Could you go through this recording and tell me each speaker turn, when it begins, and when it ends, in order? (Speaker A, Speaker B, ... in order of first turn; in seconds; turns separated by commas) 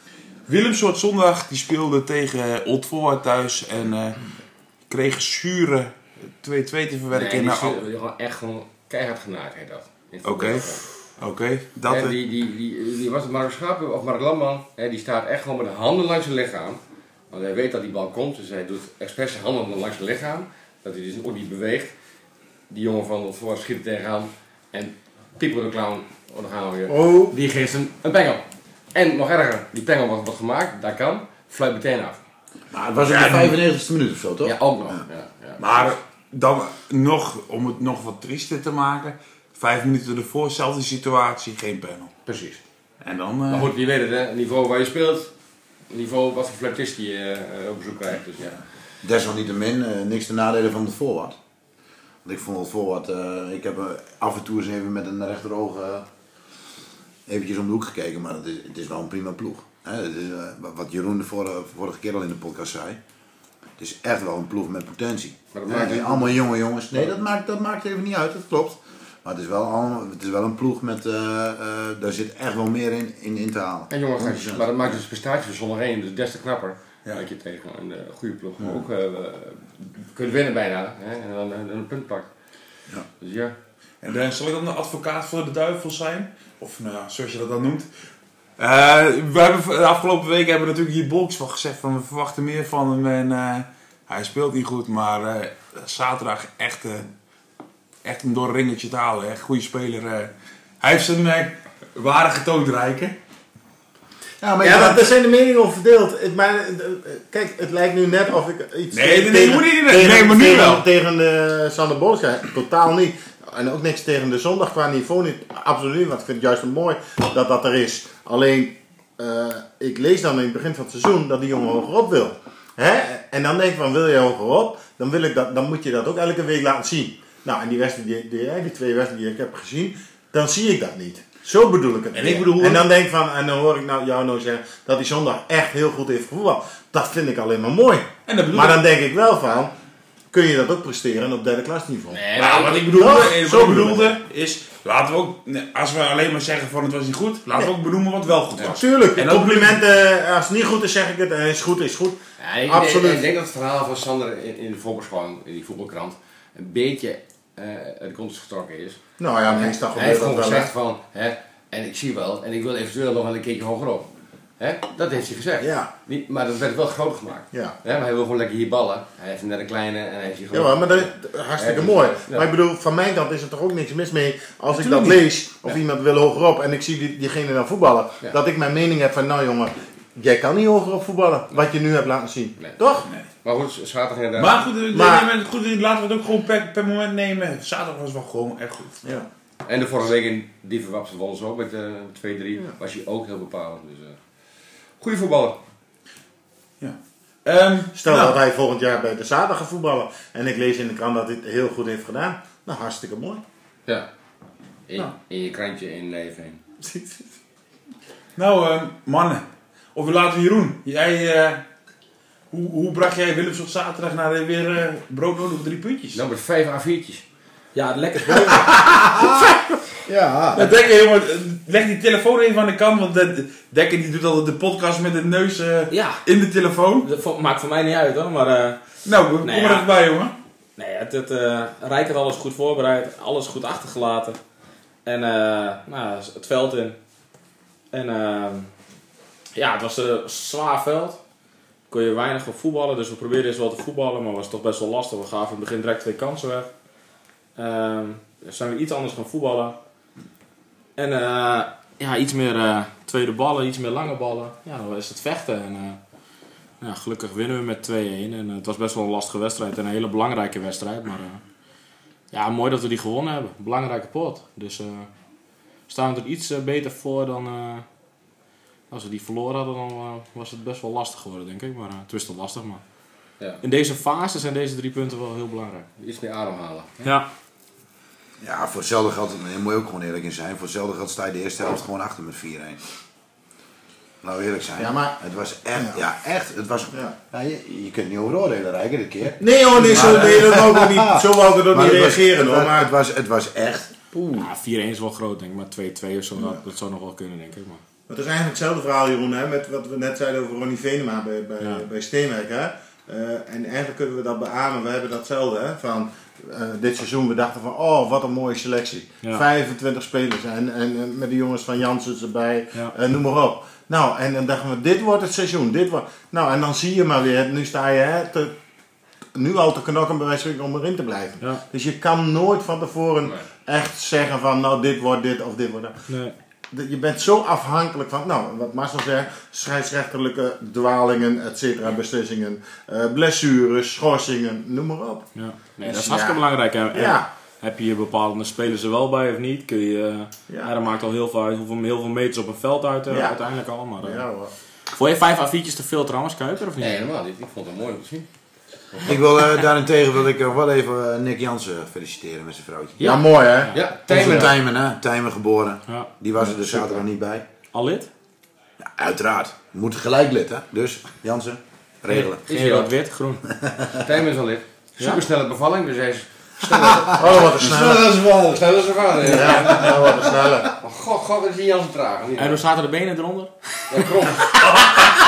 Speaker A: 0.5-4.2, Speaker A: 4.9-7.8, Speaker B: 7.1-11.0, Speaker A: 10.2-12.2, Speaker B: 11.9-16.8, Speaker B: 17.3-21.9, Speaker B: 22.7-32.2, Speaker C: 26.9-27.4, Speaker D: 32.7-35.0, Speaker A: 33.0-33.6, Speaker B: 34.4-36.0, Speaker A: 35.6-42.1, Speaker B: 42.3-42.6, Speaker A: 43.0-43.7, Speaker B: 43.5-45.3, Speaker B: 45.9-48.6, Speaker D: 49.0-51.4, Speaker D: 52.2-56.1, Speaker D: 57.3-63.0, Speaker D: 63.8-74.9, Speaker B: 65.5-66.4, Speaker B: 73.9-82.3, Speaker B: 83.2-83.5, Speaker A: 84.0-87.9, Speaker A: 88.6-97.1, Speaker A: 98.0-103.2, Speaker D: 104.4-105.1, Speaker C: 104.6-139.7, Speaker A: 108.9-110.9, Speaker A: 132.1-132.8, Speaker A: 138.3-138.8, Speaker C: 140.3-142.3, Speaker B: 142.1-143.0, Speaker A: 142.3-149.8, Speaker C: 142.8-144.1, Speaker C: 148.6-153.2, Speaker B: 152.4-172.5, Speaker C: 159.2-160.7, Speaker C: 165.6-165.9, Speaker C: 170.5-183.1, Speaker A: 174.7-175.2, Speaker B: 183.4-184.7, Speaker A: 184.4-189.2, Speaker C: 184.9-185.3, Speaker B: 189.7-194.2, Speaker B: 195.0-195.6, Speaker A: 196.8-198.4, Speaker C: 198.0-203.4, Speaker B: 204.9-206.6, Speaker C: 206.8-207.2, Speaker A: 208.4-211.7, Speaker A: 212.5-216.2, Speaker B: 216.1-217.2, Speaker E: 217.7-219.2, Speaker D: 218.7-219.5, Speaker D: 220.1-220.7, Speaker A: 220.5-227.1, Speaker E: 225.9-226.2, Speaker E: 227.0-228.8, Speaker A: 229.1-230.3, Speaker E: 229.4-229.9, Speaker E: 230.8-234.4, Speaker E: 235.1-237.0, Speaker E: 237.9-238.7, Speaker E: 239.6-241.2, Speaker E: 241.9-246.7, Speaker E: 247.6-249.8, Speaker E: 251.0-256.0, Speaker E: 256.8-261.4, Speaker E: 262.3-265.1, Speaker E: 265.9-267.9, Speaker E: 268.9-272.8, Speaker E: 273.6-275.9, Speaker B: 276.0-277.0, Speaker E: 277.0-277.3, Speaker D: 278.4-282.8, Speaker D: 284.2-294.1, Speaker C: 284.8-285.2, Speaker C: 285.8-286.0, Speaker C: 289.4-292.9, Speaker A: 289.8-290.3, Speaker A: 294.2-294.4, Speaker E: 294.4-297.8, Speaker C: 298.1-318.6, Speaker C: 319.4-326.0, Speaker E: 326.1-326.4, Speaker C: 326.7-335.3, Speaker E: 335.4-344.2, Speaker C: 335.9-336.4, Speaker C: 336.9-337.3, Speaker C: 343.1-343.4, Speaker C: 344.0-344.5, Speaker E: 344.9-347.0, Speaker B: 346.8-348.3, Speaker B: 348.9-349.2, Speaker D: 349.0-353.2, Speaker E: 353.0-354.5, Speaker C: 353.0-353.8, Speaker B: 353.7-354.6, Speaker D: 354.1-357.5, Speaker E: 357.7-358.1, Speaker D: 358.8-362.4, Speaker E: 362.1-363.4, Speaker B: 362.5-362.9, Speaker D: 363.5-364.0, Speaker B: 364.0-370.2, Speaker D: 366.7-368.6, Speaker C: 367.1-368.1, Speaker C: 369.2-370.7, Speaker D: 369.4-370.0, Speaker B: 370.8-372.6, Speaker E: 372.4-373.8, Speaker B: 373.9-375.0